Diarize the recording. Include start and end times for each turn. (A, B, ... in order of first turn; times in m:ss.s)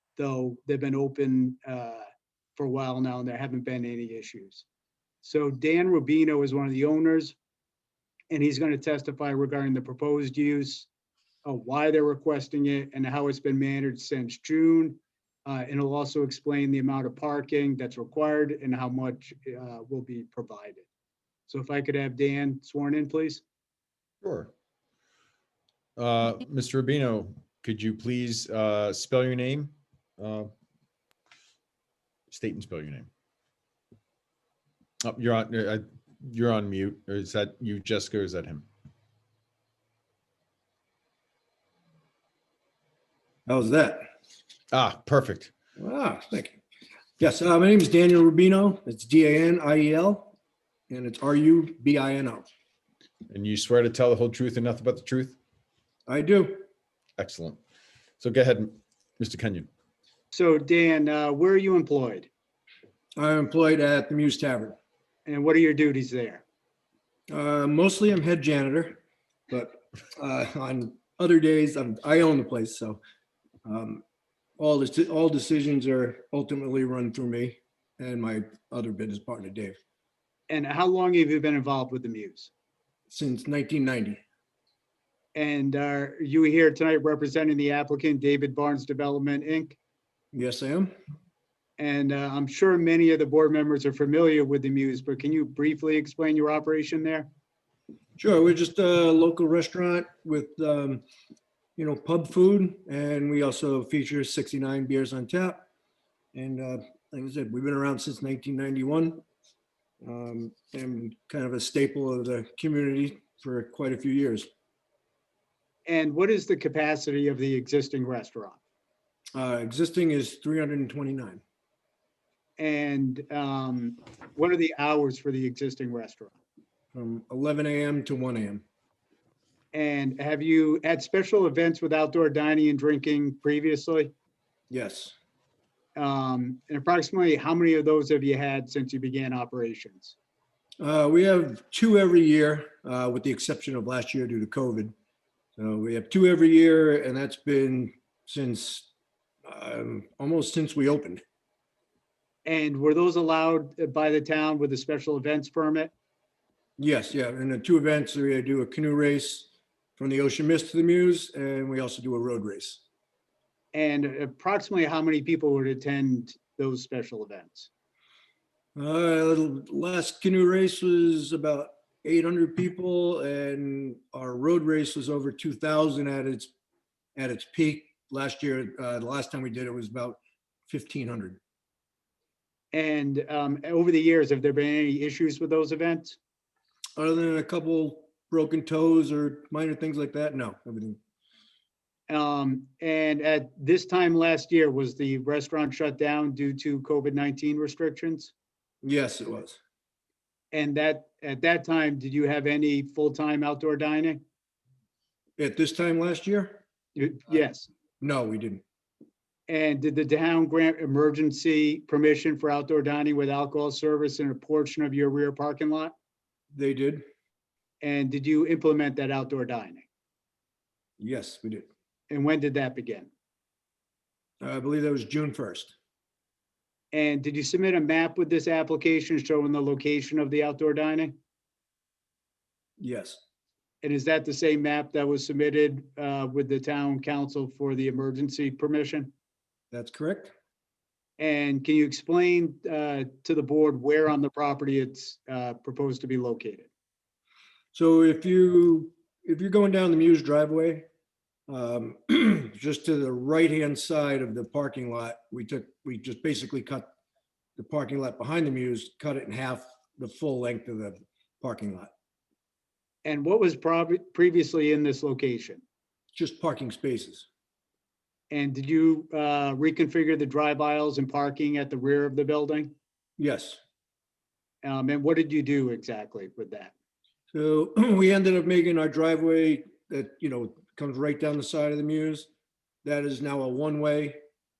0:00.2-0:04.7 A
0:05.2-0:07.4 A
0:08.3-0:10.9 A
0:11.4-0:20.9 A
0:21.5-0:23.4 A
0:24.2-0:24.5 B
0:26.0-0:30.5 B
0:32.3-0:33.1 B
0:35.0-0:38.7 B
0:43.5-0:44.1 C
0:44.7-0:45.5 B
0:45.8-0:46.6 C
0:47.2-0:50.3 C
0:50.9-0:52.5 C
0:53.3-0:55.4 B
0:56.1-0:56.6 C
0:57.2-0:57.6 B
0:58.2-0:59.7 B
1:00.3-1:02.3 A
1:03.2-1:04.8 C
1:05.3-1:06.4 A
1:07.3-1:13.0 C
1:13.6-1:14.0 C
1:14.6-1:19.8 C
1:20.5-1:22.5 A
1:23.1-1:24.2 C
1:25.4-1:29.8 A
1:30.3-1:30.9 C
1:31.8-1:37.3 A
1:38.2-1:41.0 C
1:41.8-1:45.7 C
1:46.3-1:49.2 C
1:50.0-1:54.5 C
1:55.9-1:58.6 A
1:59.4-2:01.4 C
2:02.6-2:06.4 A
2:06.9-2:08.6 C
2:09.7-2:14.1 A
2:14.7-2:15.1 C
2:16.0-2:20.2 A
2:20.8-2:24.9 C
2:25.6-2:28.9 C
2:29.5-2:31.2 C
2:32.5-2:35.9 A
2:36.8-2:42.8 C
2:43.7-2:47.7 A
2:48.8-2:56.5 C
2:57.2-3:01.4 C
3:02.7-3:06.2 A
3:07.0-3:11.0 C
3:12.1-3:18.3 A
3:18.8-3:19.6 C
3:20.5-3:24.2 A
3:25.4-3:26.6 C
3:27.0-3:27.7 A
3:28.0-3:28.6 C
3:29.5-3:35.9 A
3:36.5-3:37.0 C
3:37.8-3:39.9 A
3:41.0-3:41.7 C
3:42.1-3:43.1 A
3:44.4-3:45.7 C
3:46.9-3:51.1 A
3:52.8-3:53.2 C
3:53.8-3:59.1 A
3:59.7-4:00.3 C
4:01.2-4:06.7 A
4:07.7-4:10.8 C
4:11.5-4:16.9 C
4:17.6-4:21.9 C
4:23.0-4:25.6 A
4:26.2-4:27.3 C
4:28.3-4:32.7 A
4:33.2-4:33.6 C
4:34.6-4:36.7 A
4:37.3-4:42.3 C
4:42.8-4:44.2 C